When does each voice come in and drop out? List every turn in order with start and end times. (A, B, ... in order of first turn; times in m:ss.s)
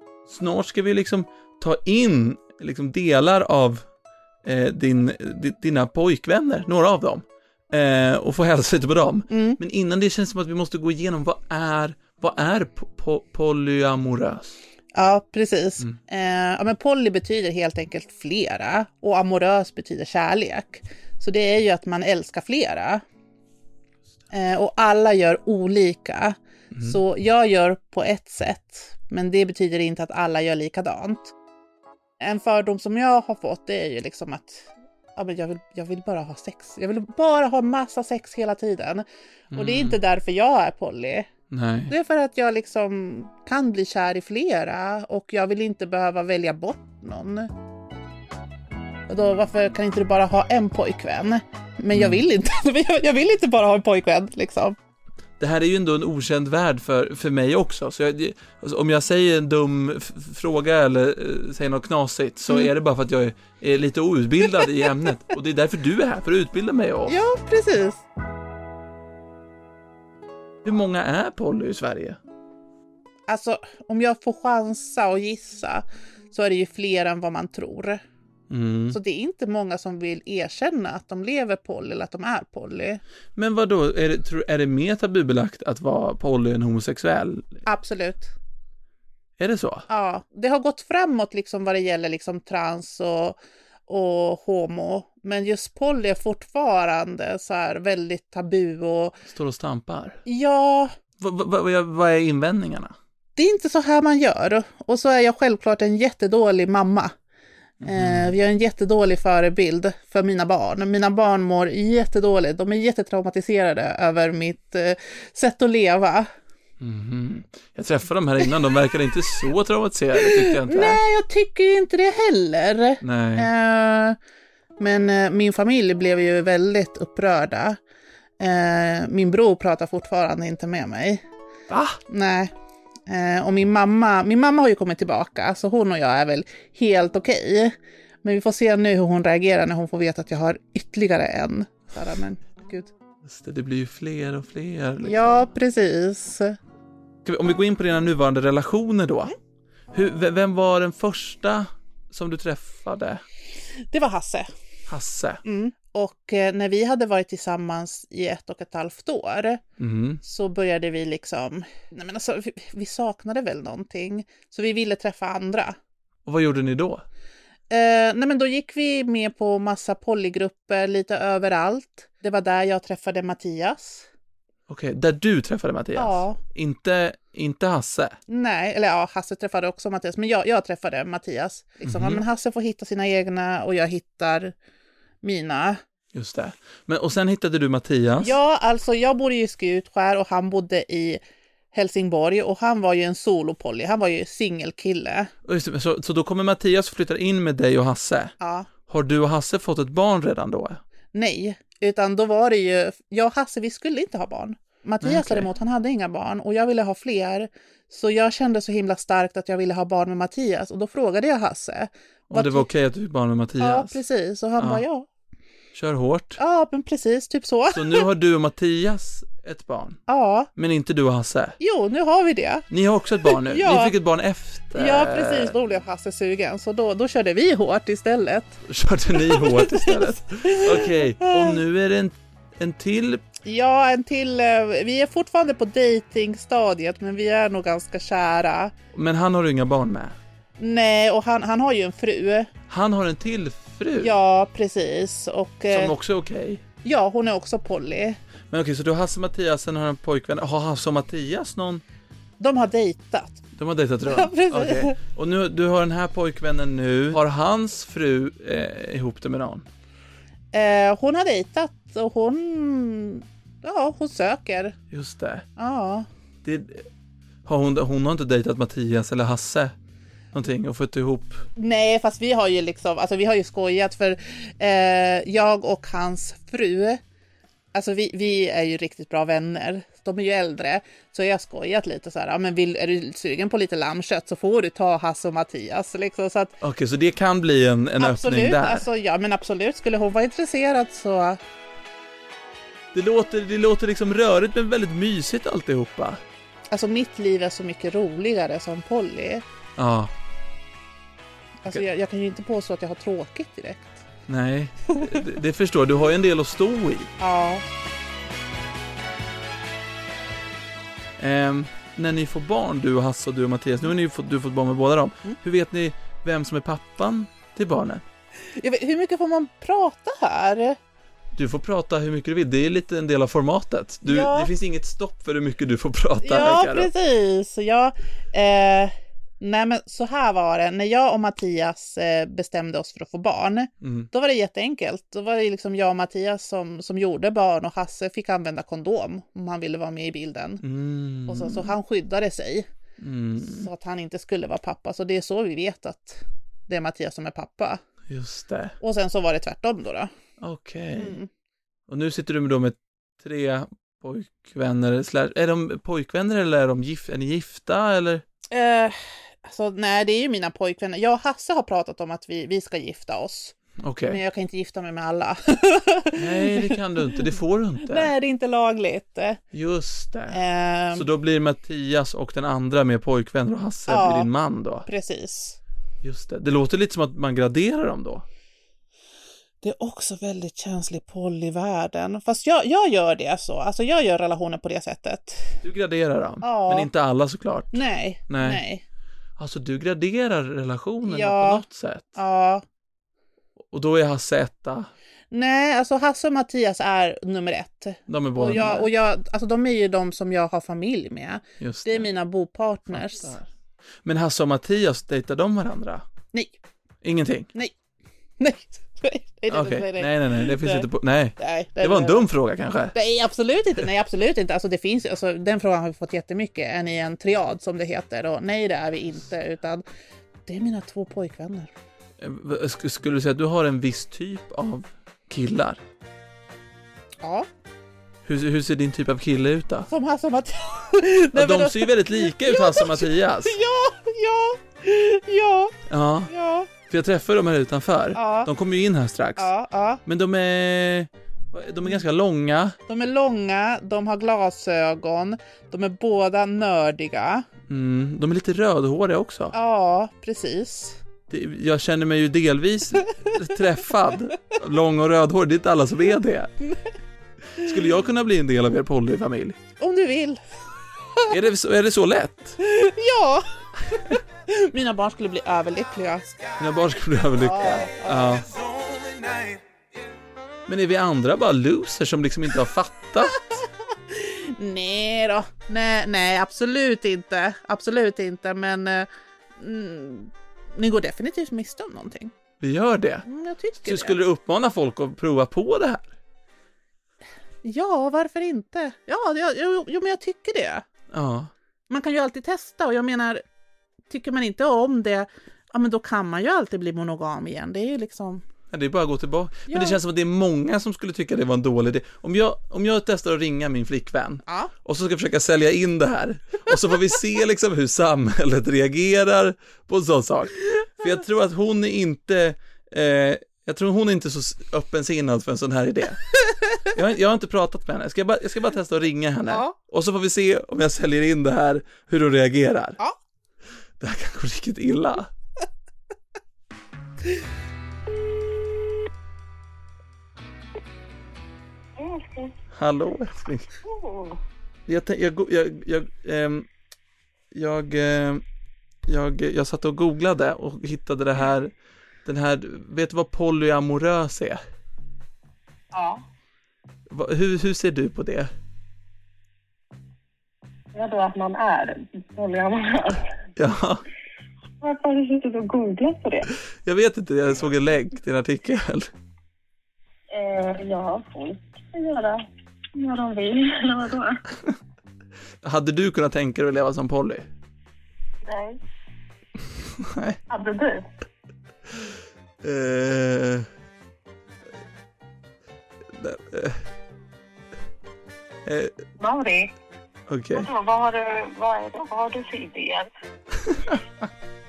0:00.3-0:03.8 A
0:04.4-0:14.6 A
0:09.3-0:09.6 B
0:14.9-0:23.0 B
0:24.3-0:31.3 B
0:32.2-0:41.3 B
0:39.5-0:40.0 A
0:41.5-0:41.9 A
0:41.9-0:47.5 B
0:49.1-0:54.8 B
0:51.9-0:52.2 A
0:55.4-1:07.2 A
1:07.1-1:08.0 B
1:10.6-1:12.2 A
1:13.3-1:18.0 B
1:18.5-1:19.0 A
1:18.9-1:23.0 B
1:23.4-1:27.6 A
1:27.6-1:28.3 B
1:29.4-1:29.8 A
1:29.9-1:39.2 B
1:39.3-1:40.2 A
1:40.2-1:40.9 B
1:41.2-1:42.9 A
1:43.4-1:47.1 B
1:47.8-1:48.4 A
1:47.8-1:56.3 B
1:56.8-2:01.0 A
2:00.2-2:04.2 B
2:03.0-2:03.5 A
2:04.8-2:07.8 B
2:08.4-2:11.2 B
2:11.7-2:12.0 A
2:12.1-2:12.5 B
2:13.1-2:22.9 B
2:23.2-2:25.5 A
2:25.0-2:26.6 B
2:27.2-2:29.3 A
2:29.9-2:33.2 A
2:33.9-2:34.5 B
2:34.9-2:35.4 A
2:35.4-2:39.6 B
2:39.8-2:40.2 A
2:40.2-2:45.8 B
2:46.2-2:47.0 A
2:47.7-2:54.1 B
2:54.7-2:58.2 A
2:56.0-2:56.4 B
2:58.3-3:04.5 B
3:01.8-3:02.2 A
3:05.2-3:05.8 B
3:06.1-3:08.4 A
3:08.2-3:11.2 B
3:11.7-3:15.3 B
3:15.4-3:18.3 A
3:18.4-3:18.7 B
3:18.9-3:20.8 A
3:21.1-3:32.6 B
3:25.0-3:25.5 A
3:32.3-3:34.0 A
3:33.6-3:35.1 B
3:34.6-3:34.8 A
3:35.7-3:36.4 A
3:36.4-3:38.0 B
3:37.7-3:40.0 A
3:40.1-3:40.5 B
3:40.6-3:41.6 A
3:41.6-3:42.6 B
3:42.7-3:45.5 A
3:43.2-3:43.9 B
3:44.7-3:48.6 B
3:48.7-3:53.2 A
3:49.1-3:51.6 B
3:53.4-3:58.7 B
3:58.9-4:00.2 A
4:00.6-4:02.5 B
4:02.7-4:04.1 A
4:04.0-4:05.9 B
4:05.7-4:06.6 A
4:06.8-4:08.2 B
4:08.5-4:11.8 A
4:12.4-4:13.4 B
4:13.6-4:19.6 A
4:14.1-4:15.0 B
4:20.5-4:24.8 B
4:24.9-4:25.4 A
4:25.6-4:26.1 B
4:26.4-4:26.9 A
4:27.4-4:29.7 A
4:30.3-4:31.4 A
4:31.6-4:37.0 B
4:37.7-4:46.5 B
4:46.6-4:48.8 A
4:48.0-4:51.4 B
4:52.9-4:56.2 A
4:56.7-4:59.4 B
4:59.8-5:00.1 A
5:01.6-5:04.0 B
5:04.3-5:07.1 A
5:07.2-5:07.6 B
5:11.2-5:18.0 A
5:18.5-5:20.8 B
5:21.3-5:26.9 A
5:24.0-5:24.5 B
5:26.2-5:40.6 B
5:33.8-5:34.1 A
5:40.6-5:41.7 A
5:41.3-5:42.7 B
5:43.0-5:43.7 A
5:43.4-5:47.8 B
5:48.1-5:48.8 A
5:48.8-5:50.1 B
5:50.4-5:51.1 A
5:51.0-5:51.3 B
5:51.9-5:58.2 A
5:58.5-6:03.5 B
6:03.8-6:04.2 A
6:04.1-6:07.2 B
6:06.2-6:08.1 A
6:07.8-6:09.4 B
6:09.5-6:10.4 A
6:10.3-6:11.0 B
6:10.9-6:14.9 A
6:13.9-6:14.3 B
6:14.8-6:15.6 B
6:16.0-6:18.2 A
6:19.6-6:25.6 B
6:25.6-6:28.6 A
6:26.4-6:26.9 B
6:27.7-6:28.8 B
6:29.4-6:32.1 A
6:31.0-6:31.6 B
6:32.2-6:32.6 B
6:33.7-6:34.9 A
6:35.3-6:43.3 B
6:38.1-6:38.9 A
6:41.6-6:42.1 A
6:42.9-6:43.5 A
6:44.0-6:46.0 A
6:47.0-6:47.5 A
6:48.4-6:50.9 B
6:49.5-6:52.9 A
6:51.4-6:52.3 B
6:52.9-6:59.8 B
7:00.4-7:01.7 B
7:02.2-7:05.8 A
7:07.2-7:07.5 B
7:08.2-7:09.9 A
7:09.9-7:15.7 B
7:11.3-7:13.5 A
7:15.9-7:16.3 A
7:16.3-7:16.7 B
7:16.9-7:19.5 A
7:18.1-7:18.5 B
7:19.4-7:20.0 B
7:20.0-7:22.8 A
7:22.9-7:27.4 B
7:27.7-7:29.5 A
7:29.5-7:31.0 B
7:31.3-7:36.5 A
7:37.6-7:39.6 A
7:39.8-7:40.4 B
7:41.3-7:42.6 A
7:42.6-7:46.2 B
7:46.6-7:48.5 A
7:47.4-7:48.4 B
7:49.0-7:49.4 B
7:50.7-7:53.4 A
7:53.5-8:02.3 B
8:02.6-8:03.3 A
8:03.3-8:04.2 B
8:03.8-8:06.1 A
8:07.6-8:10.8 B
8:11.1-8:11.5 A
8:11.9-8:13.4 B
8:14.1-8:18.4 B
8:18.7-8:36.2 A
8:19.7-8:20.0 B
8:24.4-8:24.7 B
8:36.9-8:43.0 A
8:39.5-8:39.7 B
8:44.0-8:45.3 A
8:52.0-8:52.5 C
8:52.7-8:53.7 A
8:53.8-8:54.4 C
8:54.9-8:56.7 A
8:57.5-8:58.4 A
8:59.1-9:01.7 A
9:02.2-9:04.6 A
9:05.9-9:06.2 C
9:07.1-9:08.5 A
9:10.9-9:13.3 C
9:13.6-9:14.0 A
9:14.8-9:16.5 C
9:16.8-9:19.1 A
9:20.3-9:22.4 C
9:22.9-9:24.4 C
9:25.6-9:27.5 A
9:28.4-9:28.8 C
9:30.0-9:30.4 A
9:30.5-9:31.1 C
9:32.6-9:33.7 A
9:36.2-9:36.8 A
9:38.6-9:38.9 A
9:39.2-9:39.7 C
9:40.3-9:40.7 A
9:40.5-9:43.1 C
9:43.6-9:44.0 A